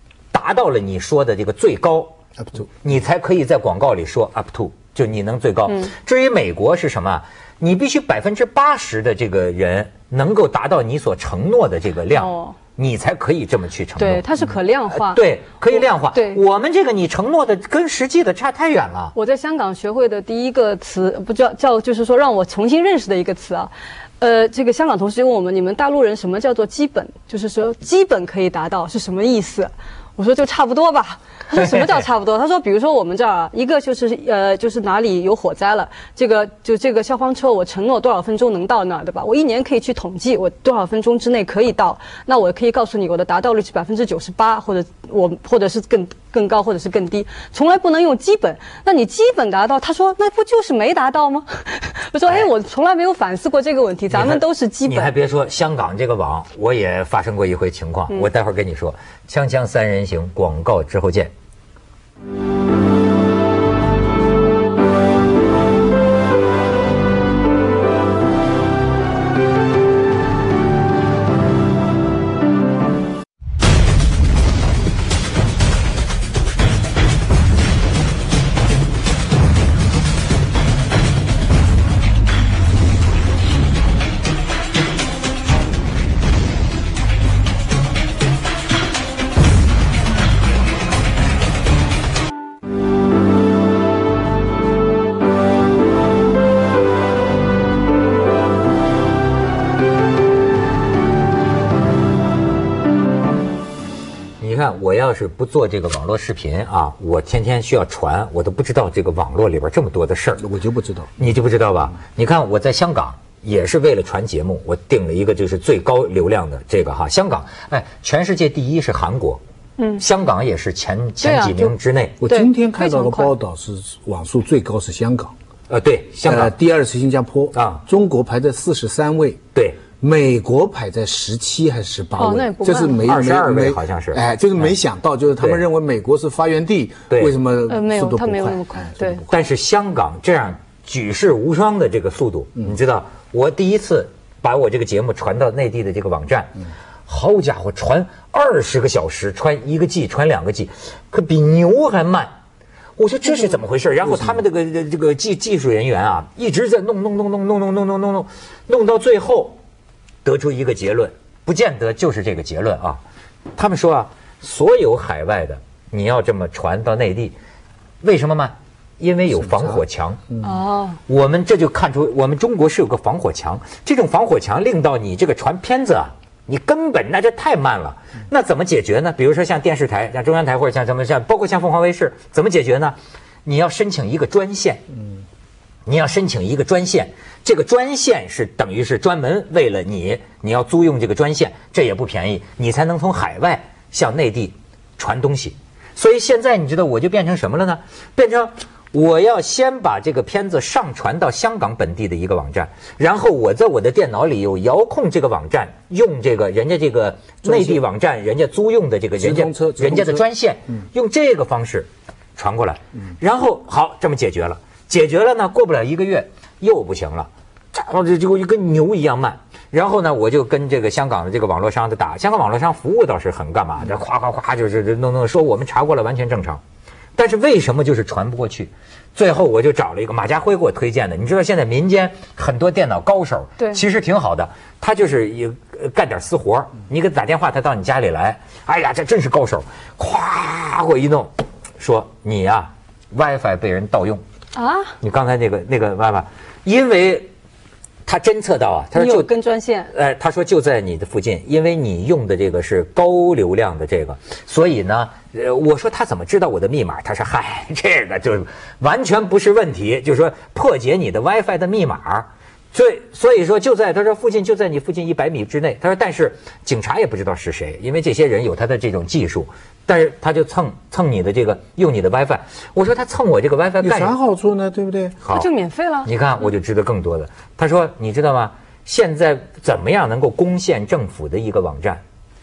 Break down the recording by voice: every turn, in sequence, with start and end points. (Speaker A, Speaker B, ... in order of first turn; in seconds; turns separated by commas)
Speaker A: 0.3-2.1, Speaker A: 2.8-14.3, Speaker B: 12.1-12.6, Speaker B: 14.0-16.4, Speaker A: 14.9-19.1, Speaker B: 19.1-55.1, Speaker A: 31.6-32.0, Speaker A: 54.1-61.3, Speaker A: 104.4-110.5, Speaker C: 110.4-111.2, Speaker A: 111.2-119.4, Speaker B: 119.8-120.0, Speaker A: 120.0-122.2, Speaker B: 121.2-121.7, Speaker C: 122.2-125.3, Speaker B: 122.2-123.3, Speaker A: 125.7-126.5, Speaker C: 126.2-129.4, Speaker A: 127.5-127.8, Speaker A: 129.6-129.8, Speaker C: 130.0-139.3, Speaker B: 132.2-133.1, Speaker A: 133.0-134.7, Speaker A: 135.4-135.6, Speaker B: 137.7-139.2, Speaker A: 139.3-146.6, Speaker A: 147.1-152.3, Speaker A: 153.0-159.6, Speaker A: 160.2-163.0, Speaker A: 163.6-167.4, Speaker A: 168.0-170.2, Speaker B: 170.4-171.0, Speaker A: 171.1-184.8, Speaker A: 185.9-226.6, Speaker C: 207.4-207.8, Speaker C: 209.2-210.2, Speaker A: 227.1-244.2, Speaker B: 244.6-245.0, Speaker A: 245.0-247.3, Speaker A: 248.1-249.3, Speaker B: 248.9-249.9, Speaker A: 249.9-274.1, Speaker C: 273.8-275.2, Speaker B: 275.3-276.1, Speaker A: 276.0-282.0